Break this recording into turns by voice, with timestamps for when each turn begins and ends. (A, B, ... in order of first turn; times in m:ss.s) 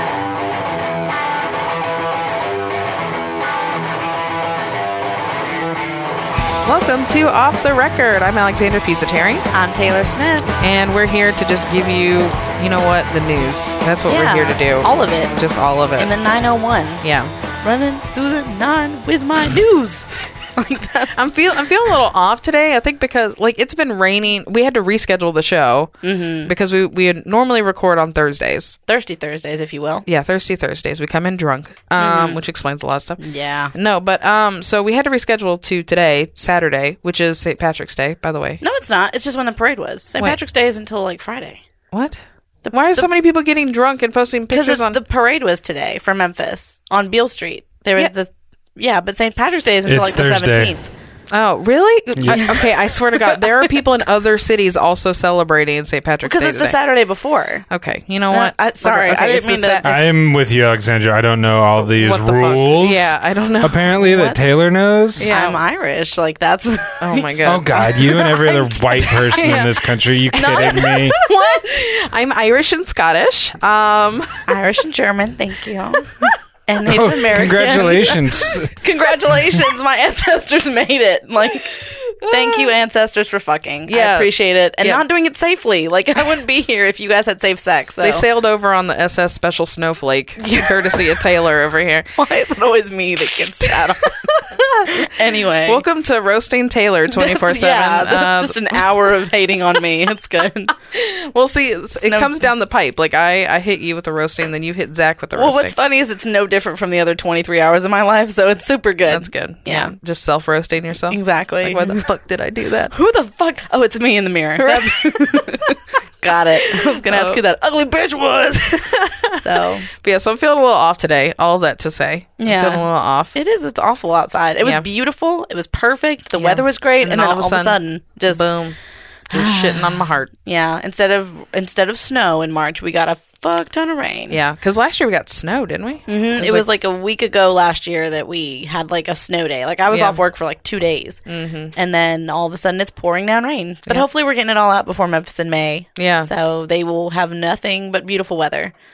0:06.6-0:09.5 A
0:09.5-0:10.5 B
0:10.6-0:16.1 A
0:14.1-0:15.3 B
0:16.0-0:17.0 B
0:17.0-0:17.3 A
0:17.6-0:21.2 B
0:21.2-0:28.8 A
0:26.0-0:26.5 B
0:28.9-0:30.0 B
0:30.0-0:33.2 A
0:32.0-0:32.4 B
0:33.2-0:33.7 B
0:33.7-0:38.6 A
0:38.6-0:41.6 B
0:41.9-0:42.2 A
0:42.6-0:43.1 B
0:42.7-0:45.0 A
0:44.5-0:50.9 B
0:49.9-0:50.8 C
0:51.3-0:56.8 A
0:52.2-0:52.5 C
0:52.3-0:52.7 B
0:56.2-0:57.6 B
0:57.7-1:00.0 A
0:58.3-1:00.0 B
0:59.8-1:05.3 C
1:01.8-1:03.9 A
1:04.0-1:04.4 B
1:05.2-1:05.6 A
1:05.2-1:09.4 B
1:07.0-1:07.7 A
1:07.4-1:11.1 C
1:09.2-1:14.6 A
1:10.3-1:11.8 B
1:14.5-1:28.2 B
1:16.8-1:18.8 C
1:21.8-1:22.7 A
1:23.9-1:25.0 A
1:28.0-1:32.1 A
1:30.4-1:31.0 B
1:32.2-1:35.8 B
1:33.7-1:34.9 A
1:35.7-1:38.9 A
1:37.1-1:40.8 B
1:40.9-1:45.8 A
1:42.0-1:42.3 B
1:45.3-1:49.9 B
1:49.1-1:52.9 A
1:51.1-1:52.0 B
1:52.9-1:59.9 B
1:54.6-1:55.2 A
1:56.8-1:57.4 A
1:59.0-1:59.4 A
2:00.0-2:03.3 A
2:02.4-2:08.5 B
2:06.4-2:08.8 A
2:09.3-2:10.3 A
2:09.3-2:14.4 B
2:14.3-2:16.6 A
2:16.1-2:21.2 B
2:19.9-2:20.2 A
2:21.3-2:21.7 A
2:21.7-2:28.7 B
2:26.0-2:26.3 A